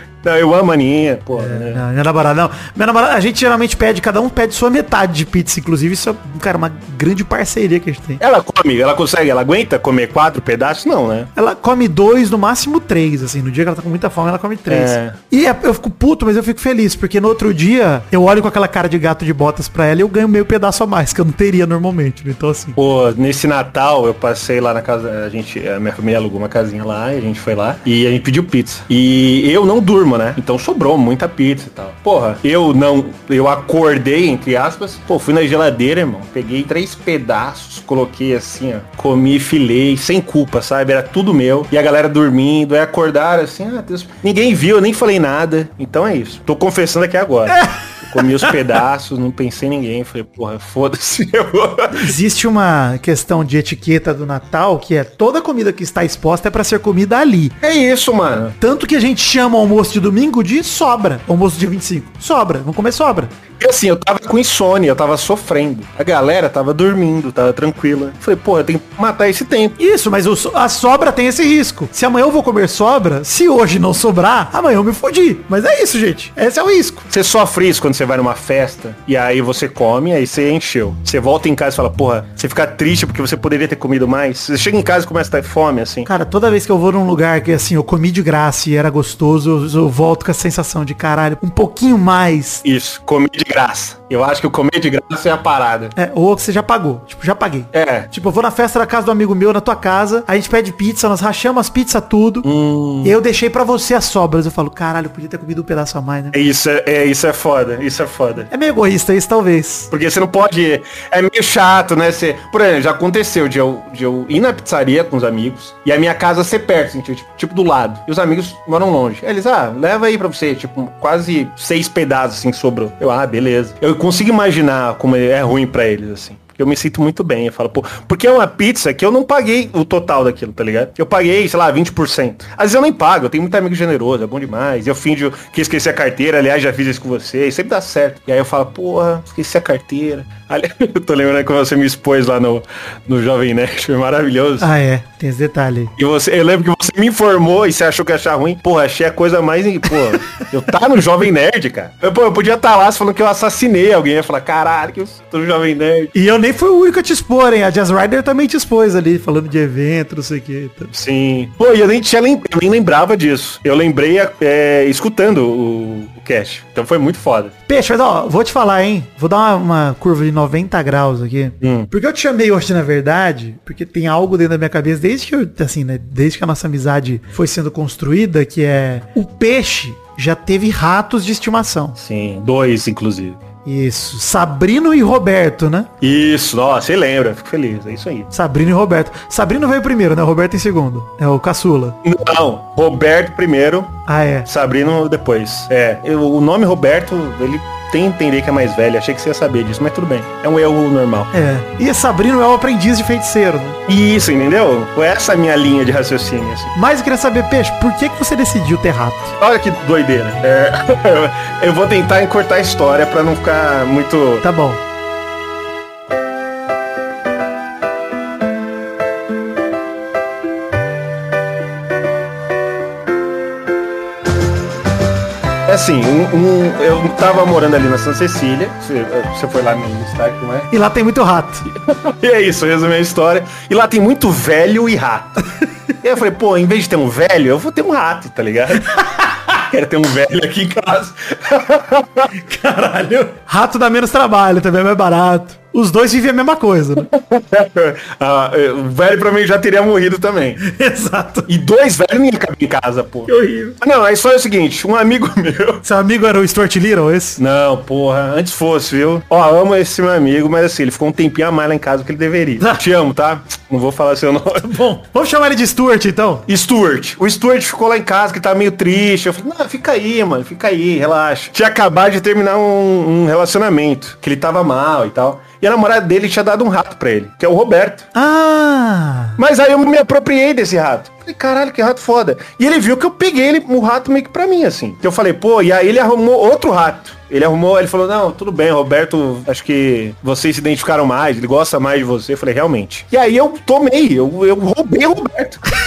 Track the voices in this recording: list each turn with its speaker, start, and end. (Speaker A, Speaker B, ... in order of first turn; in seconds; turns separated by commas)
Speaker A: 0.2-1.8, Speaker B: 1.4-8.2, Speaker A: 8.2-11.3, Speaker B: 11.4-22.8, Speaker A: 14.7-15.2, Speaker A: 22.8-52.1, Speaker B: 47.5-48.6, Speaker B: 51.9-57.6, Speaker A: 57.6-58.6, Speaker B: 58.6-63.3, Speaker A: 63.6-69.8, Speaker B: 69.8-77.1, Speaker A: 77.1-86.1, Speaker B: 86.1-92.6, Speaker A: 92.6-96.0, Speaker B: 96.0-102.5, Speaker A: 97.7-98.1, Speaker A: 102.4-103.2, Speaker B: 103.0-106.4, Speaker A: 106.3-108.5, Speaker B: 108.5-109.9, Speaker A: 109.9-144.7, Speaker B: 144.6-145.9, Speaker A: 146.0-156.1, Speaker B: 156.1-160.9, Speaker A: 160.9-167.5, Speaker B: 167.7-182.0, Speaker A: 171.6-171.9, Speaker A: 182.0-183.4, Speaker B: 183.6-185.9, Speaker A: 186.0-188.3, Speaker B: 188.3-192.0, Speaker A: 192.0-201.3, Speaker B: 194.1-194.5, Speaker B: 201.3-203.8, Speaker A: 203.9-206.7, Speaker B: 206.8-209.3, Speaker A: 209.4-214.4, Speaker B: 214.4-214.8, Speaker A: 225.6-230.7, Speaker B: 230.7-231.7, Speaker A: 231.7-235.4, Speaker A: 236.0-242.3, Speaker B: 238.9-239.4, Speaker B: 242.3-247.1, Speaker A: 247.0-250.6, Speaker B: 250.6-251.5, Speaker A: 251.5-255.8, Speaker B: 253.3-253.8, Speaker B: 255.8-257.4, Speaker A: 257.4-264.8, Speaker B: 264.6-266.5, Speaker A: 266.5-278.1, Speaker B: 278.1-279.4, Speaker A: 279.4-295.6